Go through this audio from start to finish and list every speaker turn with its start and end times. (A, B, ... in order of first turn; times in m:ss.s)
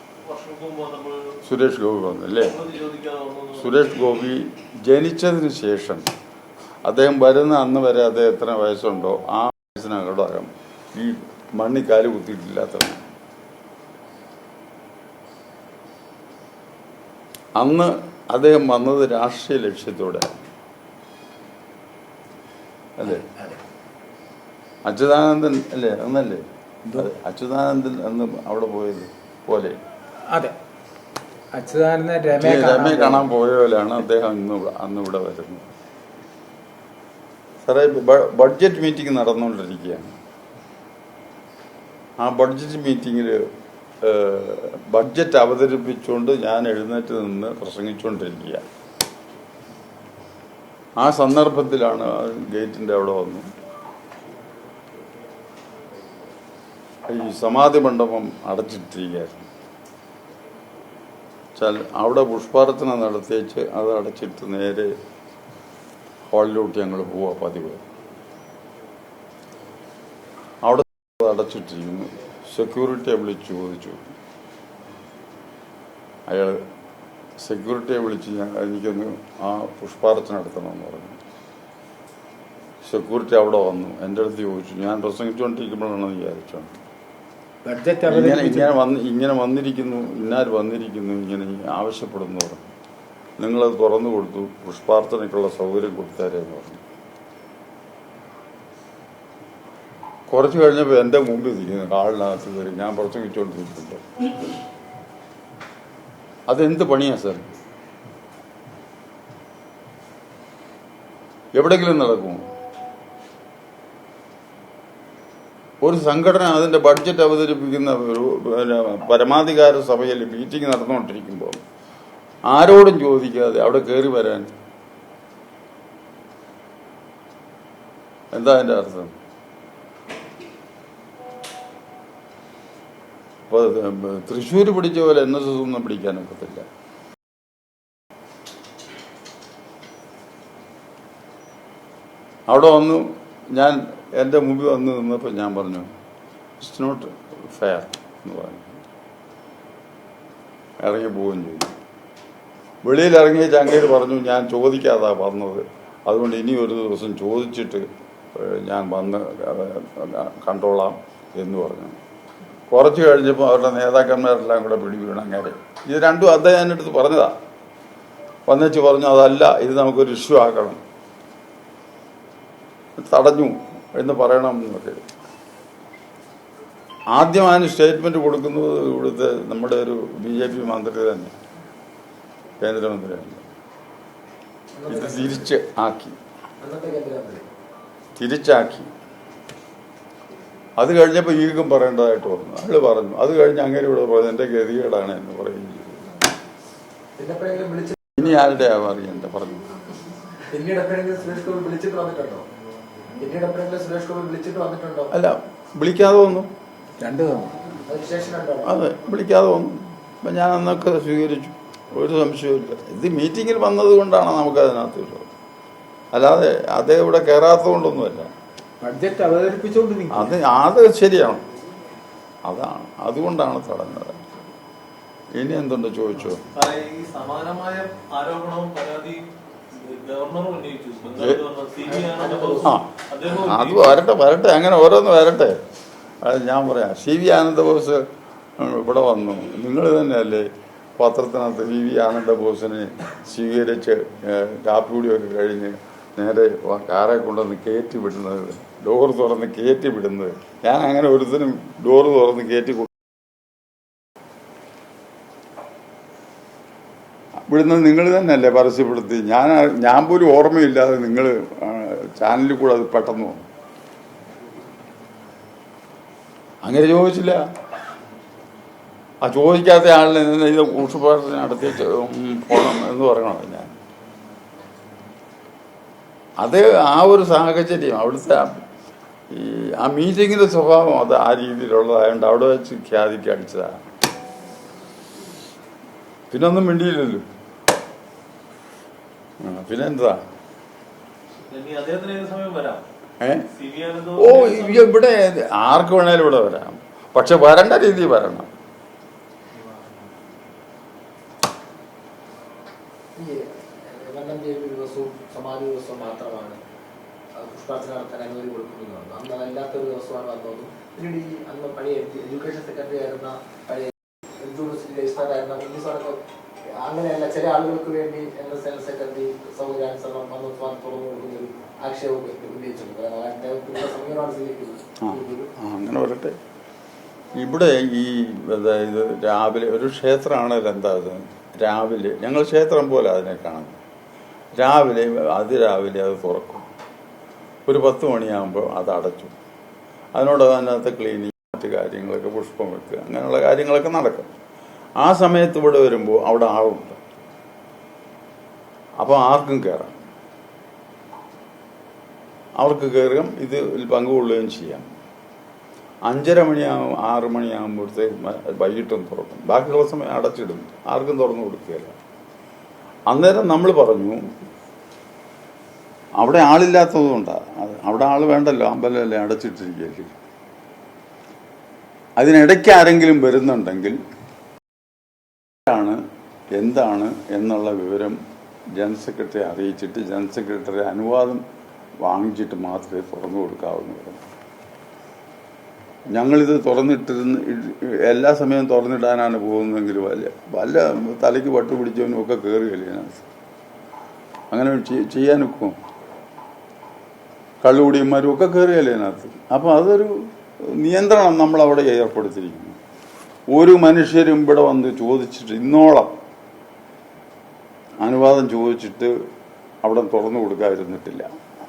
0:00.2-0:01.3 A
0:01.4-0:02.6 B
0:02.4-0:03.8 A
0:03.5-0:06.1 B
0:06.8-0:13.1 B
0:17.6-0:20.4 B
0:23.0-0:23.2 B
0:24.8-0:29.8 B
0:30.3-0:30.5 C
0:31.5-0:33.3 C
0:32.3-0:35.7 B
0:37.6-0:40.2 B
0:42.2-0:43.4 B
0:44.0-0:48.6 B
0:51.0-0:53.5 B
0:57.1-0:59.4 B
1:01.6-1:04.9 B
1:06.3-1:07.8 B
1:10.6-1:14.0 B
1:16.3-1:16.6 B
1:17.4-1:21.2 B
1:22.8-1:26.8 B
1:27.6-1:28.7 C
1:28.1-1:32.7 B
1:33.4-1:36.8 B
1:40.3-1:44.0 B
1:46.5-1:47.4 B
1:51.5-1:52.4 B
1:55.8-2:01.6 B
2:02.5-2:04.5 B
2:08.3-2:09.1 B
2:13.5-2:16.6 B
2:22.5-2:25.9 B
2:26.6-2:28.8 B
2:30.8-2:31.7 B
2:32.8-2:42.0 B
2:42.7-2:47.3 B
2:48.5-2:50.8 B
2:53.0-2:55.0 B
2:57.1-3:01.3 B
3:02.6-3:03.4 B
3:04.7-3:05.5 D
3:04.9-3:06.2 B
3:06.6-3:07.4 D
3:08.2-3:08.9 B
3:10.8-3:16.2 B
3:17.2-3:18.2 D
3:18.2-3:19.7 B
3:20.5-3:22.4 D
3:23.2-3:25.1 D
3:25.1-3:26.5 B
3:27.0-3:27.6 C
3:27.8-3:28.7 D
3:28.6-3:35.3 B
3:36.1-3:38.3 B
3:38.8-3:40.3 C
3:40.1-3:41.4 B
3:42.4-3:44.2 B
3:45.4-3:46.4 B
3:46.5-3:54.0 A
3:51.2-3:51.4 B
3:51.8-3:52.7 D
3:52.6-3:55.6 B
3:56.2-3:58.0 B
3:58.6-4:13.0 B
4:17.5-4:23.4 B
4:26.6-4:27.4 B
4:29.2-4:33.7 B
4:36.4-4:38.6 B
4:39.3-4:43.8 B
4:46.3-4:47.2 B
4:49.4-4:50.2 B
4:51.4-4:52.8 A
4:53.2-4:53.5 B
4:53.5-4:54.9 A
4:54.2-4:58.5 B
5:03.2-5:06.6 D
5:07.4-5:16.2 D
5:16.8-5:25.5 D
5:25.0-5:26.4 B
5:27.4-5:33.8 B
5:34.6-5:36.6 B
5:37.7-5:39.3 B
5:40.1-5:44.3 B
5:45.0-5:47.0 B
5:49.0-5:50.0 B
5:52.6-5:54.8 B
5:56.1-6:01.9 B
6:03.1-6:04.2 B
6:06.2-6:10.1 B
6:12.2-6:14.0 B
6:15.7-6:16.0 B
6:16.6-6:18.2 B
6:18.8-6:21.4 B
6:22.0-6:24.2 B
6:26.1-6:33.2 B
6:34.5-6:35.8 B
6:37.6-6:40.1 B
6:40.6-6:42.8 B
6:43.5-6:46.1 B
6:48.0-6:49.1 B
6:49.8-6:51.3 B